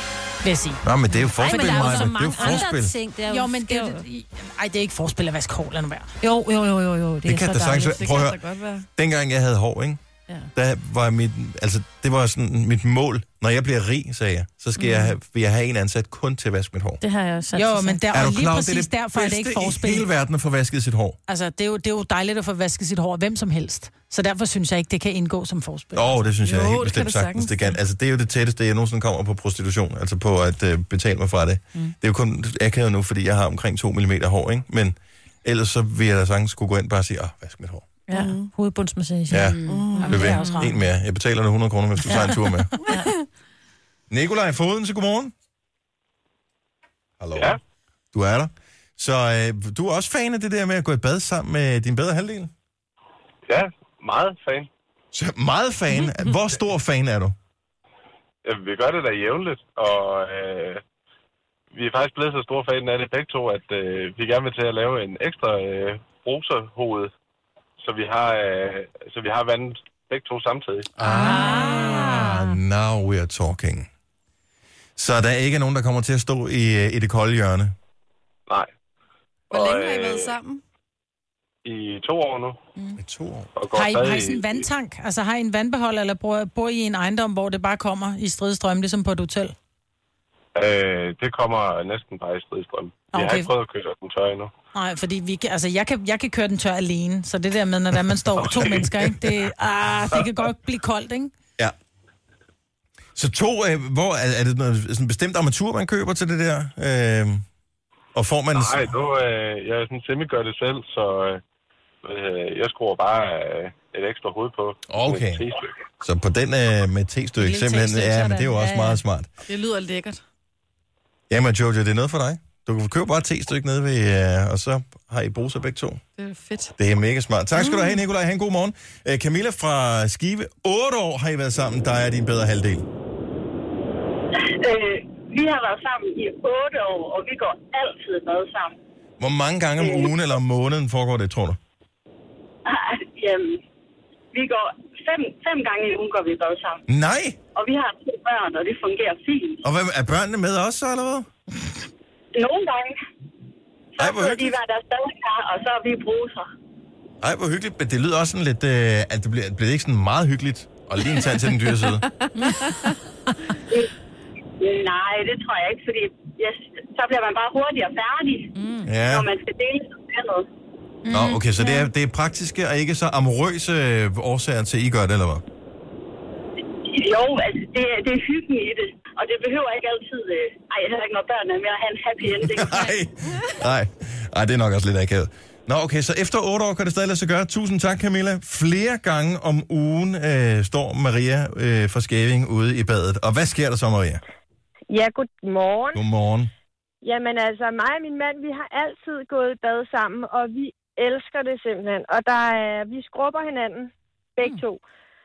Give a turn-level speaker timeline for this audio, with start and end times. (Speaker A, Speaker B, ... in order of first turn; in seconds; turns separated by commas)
Speaker A: 0.4-0.8, Speaker B: 0.8-2.9, Speaker C: 1.4-4.0, Speaker A: 1.9-2.7, Speaker A: 3.3-6.1, Speaker C: 6.2-8.0, Speaker B: 7.2-8.4, Speaker D: 7.8-8.8, Speaker B: 8.9-10.0, Speaker B: 10.5-17.0, Speaker C: 14.8-15.1, Speaker C: 17.0-18.1, Speaker A: 17.5-20.1, Speaker B: 18.1-21.2, Speaker A: 21.3-26.3, Speaker B: 25.9-37.9, Speaker D: 26.4-27.7, Speaker C: 38.1-40.7, Speaker D: 38.1-38.5, Speaker B: 39.3-42.9, Speaker D: 39.7-40.4, Speaker A: 40.0-40.7, Speaker B: 44.1-45.3, Speaker B: 47.2-47.5, Speaker B: 48.1-52.5, Speaker E: 53.5-54.7, Speaker B: 55.1-57.3, Speaker E: 58.4-60.8, Speaker E: 61.7-67.1, Speaker E: 67.8-70.9, Speaker B: 71.0-73.9, Speaker A: 71.0-72.4, Speaker B: 75.0-77.7, Speaker D: 79.5-80.6, Speaker E: 79.5-80.3, Speaker E: 81.6-82.6, Speaker B: 83.0-83.5, Speaker E: 83.5-84.5, Speaker A: 83.7-89.5, Speaker E: 90.5-94.5, Speaker A: 93.1-93.5, Speaker A: 94.7-101.3, Speaker E: 98.3-98.9, Speaker B: 103.2-107.4, Speaker B: 108.1-108.9, Speaker E: 108.5-111.4, Speaker E: 112.0-115.8, Speaker B: 114.9-115.5, Speaker B: 116.0-119.3, Speaker C: 117.4-119.0, Speaker D: 119.4-120.2, Speaker B: 121.3-126.0, Speaker D: 126.2-126.7, Speaker B: 126.8-132.8, Speaker D: 127.5-127.9, Speaker F: 134.6-138.7, Speaker B: 139.2-141.6, Speaker F: 139.8-140.1, Speaker F: 142.7-143.6, Speaker F: 144.3-146.8, Speaker B: 146.9-147.4, Speaker F: 147.5-149.6, Speaker B: 149.6-151.3, Speaker F: 152.3-152.9, Speaker F: 153.9-156.4, Speaker B: 154.0-154.6, Speaker B: 157.2-162.1, Speaker D: 162.6-162.9, Speaker F: 164.6-170.5, Speaker C: 168.5-168.9, Speaker B: 168.8-169.3, Speaker A: 171.1-171.4, Speaker B: 171.1-175.4, Speaker C: 171.6-171.8, Speaker F: 176.9-183.0, Speaker B: 182.4-194.2, Speaker G: 194.9-196.0, Speaker B: 195.9-196.5, Speaker G: 197.0-204.8